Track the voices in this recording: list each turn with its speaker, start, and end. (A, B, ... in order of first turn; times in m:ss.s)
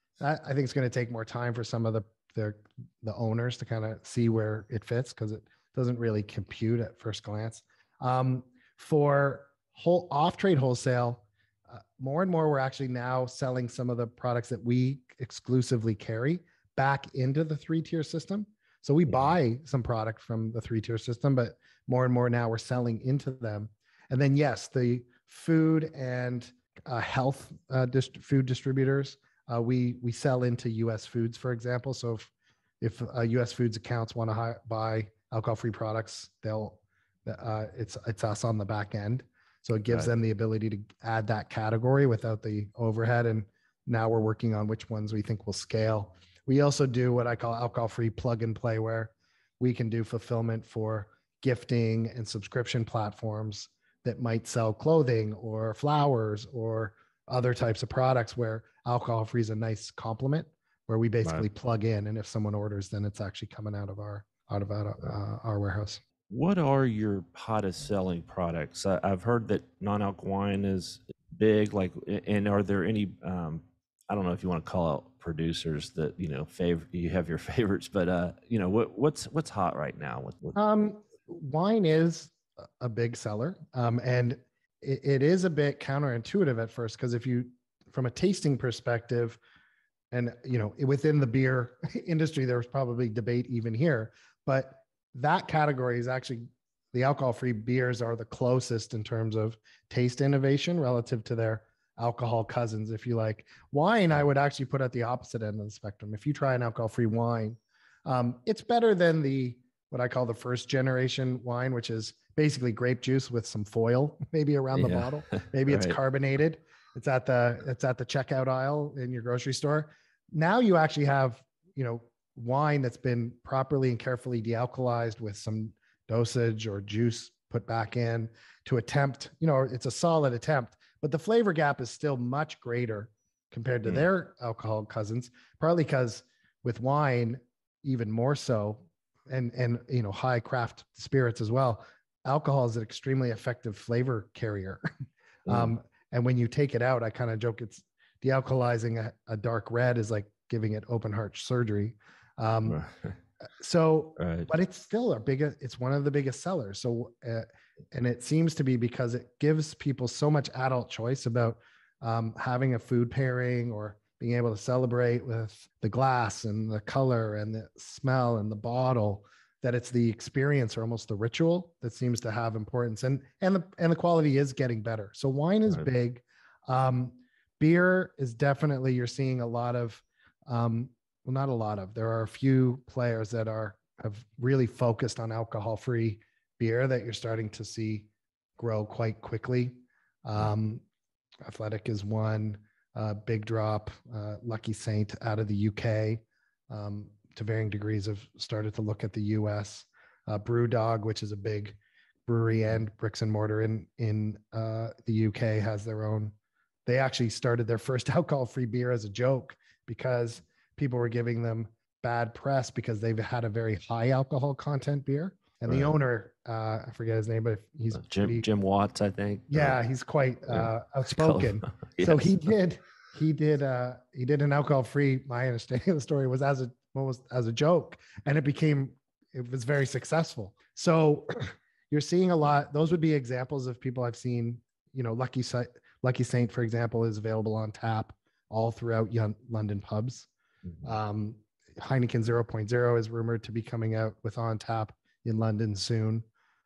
0:00.2-1:06.0 A
1:06.3-1:20.6 B
1:20.5-1:29.4 A
1:30.1-2:24.8 A
1:54.7-1:56.0 B
2:25.4-2:25.7 B
2:25.5-2:32.8 A
2:32.6-2:33.2 B
2:33.6-3:10.8 A
2:34.2-2:34.5 B
3:11.4-3:26.3 A
3:26.8-3:38.4 A
3:35.6-3:35.9 B
3:37.9-3:39.8 B
3:39.5-4:00.3 A
3:40.5-3:42.4 B
4:00.8-4:06.2 A